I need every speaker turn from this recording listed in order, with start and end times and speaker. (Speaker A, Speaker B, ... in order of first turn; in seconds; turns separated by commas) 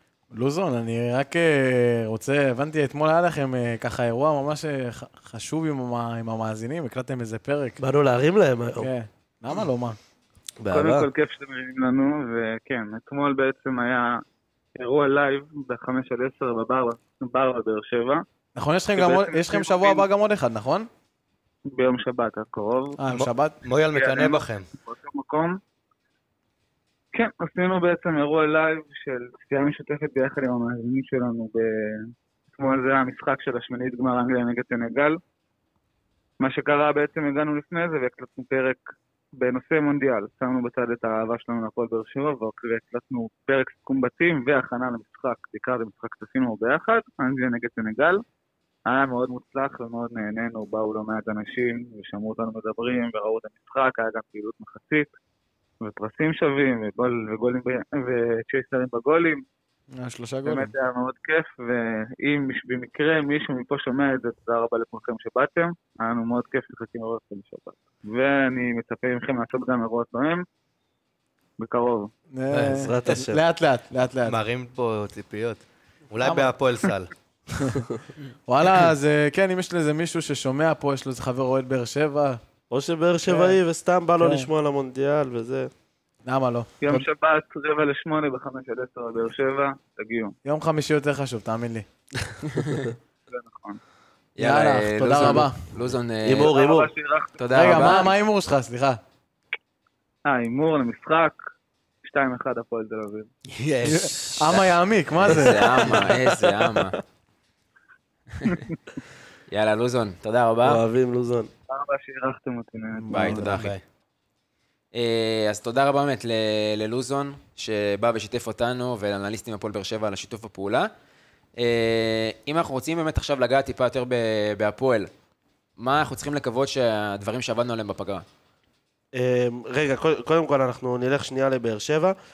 Speaker A: 0.3-7.8, Speaker B: 7.8-8.9, Speaker A: 8.8-10.0, Speaker B: 10.6-11.1, Speaker C: 10.7-14.2, Speaker C: 14.8-18.2, Speaker A: 18.6-20.9, Speaker C: 18.9-20.1, Speaker C: 21.7-23.0, Speaker A: 23.0-23.6, Speaker D: 23.1-24.7, Speaker C: 23.9-25.6, Speaker C: 27.1-35.2, Speaker C: 36.4-38.8, Speaker C: 39.4-48.2, Speaker C: 48.9-55.1, Speaker C: 55.8-59.4, Speaker A: 59.9-60.7, Speaker C: 60.5-70.4, Speaker C: 71.6-72.1, Speaker A: 72.3-74.4, Speaker B: 72.5-73.4, Speaker D: 74.2-77.1, Speaker A: 77.6-77.8, Speaker A: 78.5-82.4, Speaker B: 82.7-85.7, Speaker A: 83.2-83.6, Speaker A: 84.2-84.5, Speaker A: 86.2-87.0, Speaker C: 86.8-90.3, Speaker A: 90.4-91.8, Speaker E: 92.5-92.8, Speaker C: 93.3-93.8, Speaker E: 94.4-96.5, Speaker A: 94.4-95.7, Speaker B: 96.2-96.9, Speaker C: 96.4-97.9, Speaker E: 97.4-98.1, Speaker A: 97.5-99.0, Speaker C: 100.2-101.4, Speaker C: 102.0-103.3, Speaker D: 103.5-104.7, Speaker A: 103.8-106.0, Speaker E: 105.2-107.0, Speaker B: 106.2-106.8, Speaker E: 109.5-110.8, Speaker B: 110.6-111.5, Speaker C: 111.7-113.4, Speaker A: 113.0-113.6, Speaker E: 113.1-113.7, Speaker D: 113.4-113.8, Speaker E: 114.9-120.9, Speaker E: 121.6-125.1, Speaker E: 125.8-128.2, Speaker B: 129.1-132.1